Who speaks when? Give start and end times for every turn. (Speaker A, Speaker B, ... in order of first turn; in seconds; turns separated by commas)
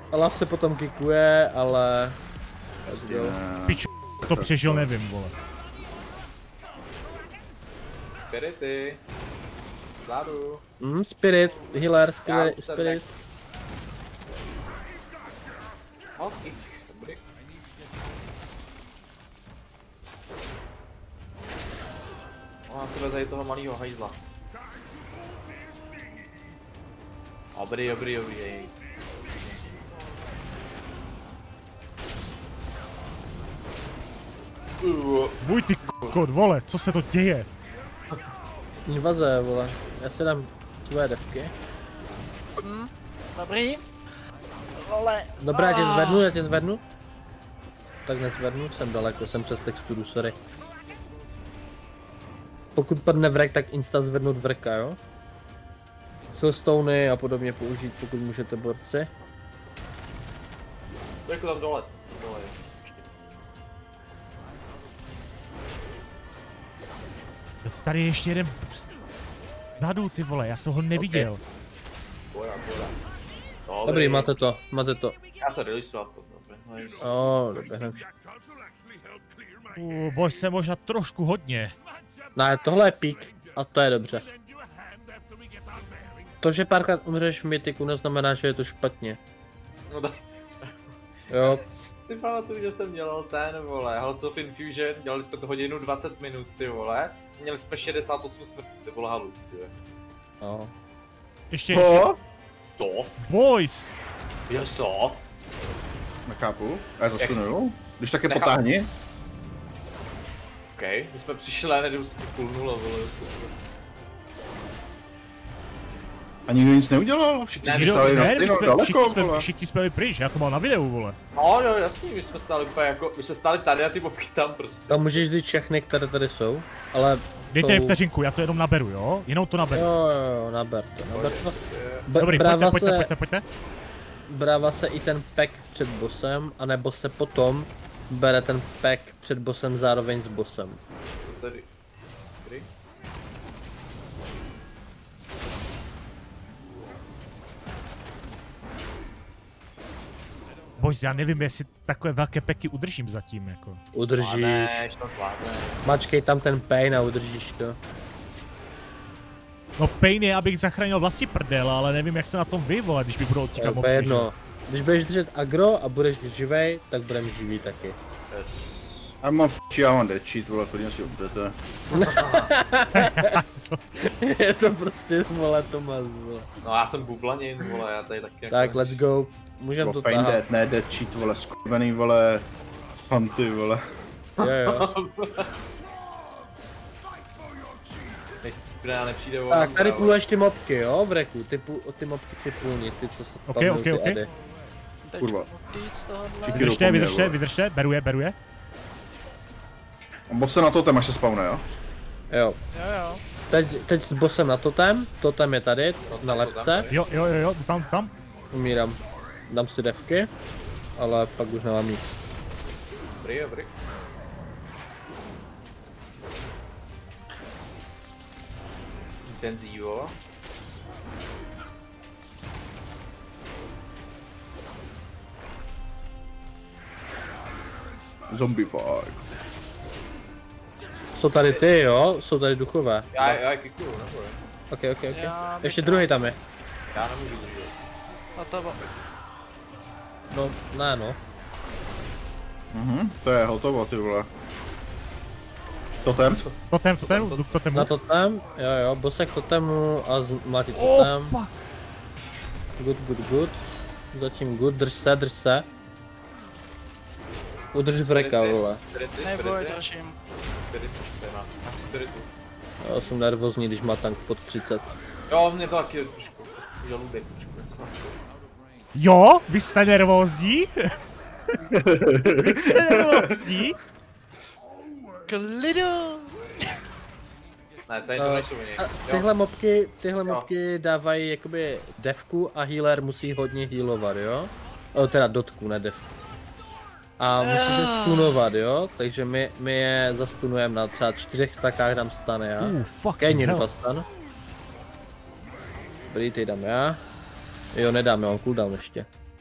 Speaker A: 0.1-2.2, Speaker B: 2.9-4.9, Speaker A: 2.9-3.4, Speaker C: 3.7-5.3, Speaker D: 8.3-9.0, Speaker D: 10.0-10.6, Speaker A: 10.8-13.0, Speaker D: 12.2-13.0, Speaker D: 16.2-17.2, Speaker D: 22.7-24.2, Speaker D: 27.5-28.7, Speaker D: 29.3-29.8, Speaker D: 34.8-35.4, Speaker C: 35.4-37.5, Speaker A: 38.8-41.5, Speaker E: 42.6-43.8, Speaker E: 44.8-46.3, Speaker A: 45.4-46.8, Speaker A: 48.0-50.4, Speaker A: 52.8-55.0, Speaker A: 56.3-59.1, Speaker D: 61.2-63.0, Speaker C: 67.6-68.8, Speaker C: 69.8-71.4, Speaker D: 70.9-71.3, Speaker D: 72.3-73.0, Speaker D: 73.7-74.3, Speaker A: 73.8-75.2, Speaker D: 75.4-77.0, Speaker A: 77.0-78.1, Speaker C: 79.7-81.7, Speaker A: 82.3-84.3, Speaker A: 86.4-89.2, Speaker D: 89.9-90.7, Speaker A: 91.3-91.7, Speaker D: 91.3-99.7, Speaker A: 100.4-100.7, Speaker C: 101.5-102.1, Speaker B: 101.7-102.2, Speaker D: 102.8-103.1, Speaker C: 103.2-103.9, Speaker D: 104.5-105.2, Speaker B: 106.2-108.9, Speaker D: 107.2-107.5, Speaker D: 108.3-108.5, Speaker D: 110.8-113.5, Speaker B: 116.5-119.5, Speaker D: 117.6-118.6, Speaker C: 117.7-121.2, Speaker D: 121.3-125.2, Speaker A: 124.9-128.0, Speaker C: 127.5-129.9, Speaker A: 129.7-131.5, Speaker D: 131.1-132.1, Speaker A: 132.1-133.1, Speaker C: 132.2-133.4, Speaker A: 134.3-140.8, Speaker D: 141.2-141.7, Speaker C: 150.8-153.8, Speaker A: 153.9-154.8, Speaker D: 154.2-155.8, Speaker A: 155.8-157.8, Speaker C: 159.8-164.3, Speaker A: 163.6-168.0, Speaker D: 168.3-169.1, Speaker B: 169.2-171.6, Speaker D: 171.9-172.5, Speaker A: 171.9-173.4, Speaker C: 172.9-173.8, Speaker A: 174.0-176.5, Speaker D: 176.6-179.0, Speaker A: 178.5-180.4, Speaker B: 179.8-182.5, Speaker B: 183.1-183.8, Speaker D: 184.4-185.5, Speaker A: 184.4-184.9, Speaker D: 188.4-190.2, Speaker A: 189.5-194.3, Speaker C: 193.5-194.2, Speaker E: 195.1-196.7, Speaker B: 195.2-195.5, Speaker B: 196.4-197.3, Speaker C: 196.5-198.3, Speaker B: 200.3-201.6, Speaker A: 202.3-202.6, Speaker E: 202.7-203.2, Speaker A: 203.5-206.9, Speaker D: 206.1-207.0, Speaker C: 206.9-208.1, Speaker A: 208.5-210.3, Speaker A: 211.0-212.1, Speaker D: 213.2-213.7, Speaker D: 219.2-220.2, Speaker B: 228.3-229.2, Speaker A: 231.2-233.4, Speaker D: 233.1-234.4, Speaker A: 234.7-236.4, Speaker E: 235.1-236.1, Speaker D: 236.9-237.8, Speaker E: 238.4-238.8, Speaker A: 240.3-241.2, Speaker B: 242.7-244.3, Speaker B: 246.0-246.4, Speaker D: 246.3-247.6, Speaker C: 246.7-247.9, Speaker A: 247.7-251.3, Speaker C: 250.7-251.7, Speaker A: 252.8-255.7, Speaker A: 257.7-258.8, Speaker D: 258.0-259.8, Speaker E: 259.2-260.1, Speaker D: 260.7-262.3, Speaker A: 262.8-264.9, Speaker D: 265.3-268.2, Speaker C: 268.9-270.9, Speaker B: 271.7-273.3, Speaker C: 272.2-273.8, Speaker E: 275.3-276.6, Speaker D: 277.9-279.3, Speaker A: 278.2-286.1, Speaker A: 287.2-294.1, Speaker E: 287.4-288.5, Speaker C: 292.6-293.6, Speaker A: 296.1-297.0, Speaker A: 297.7-299.1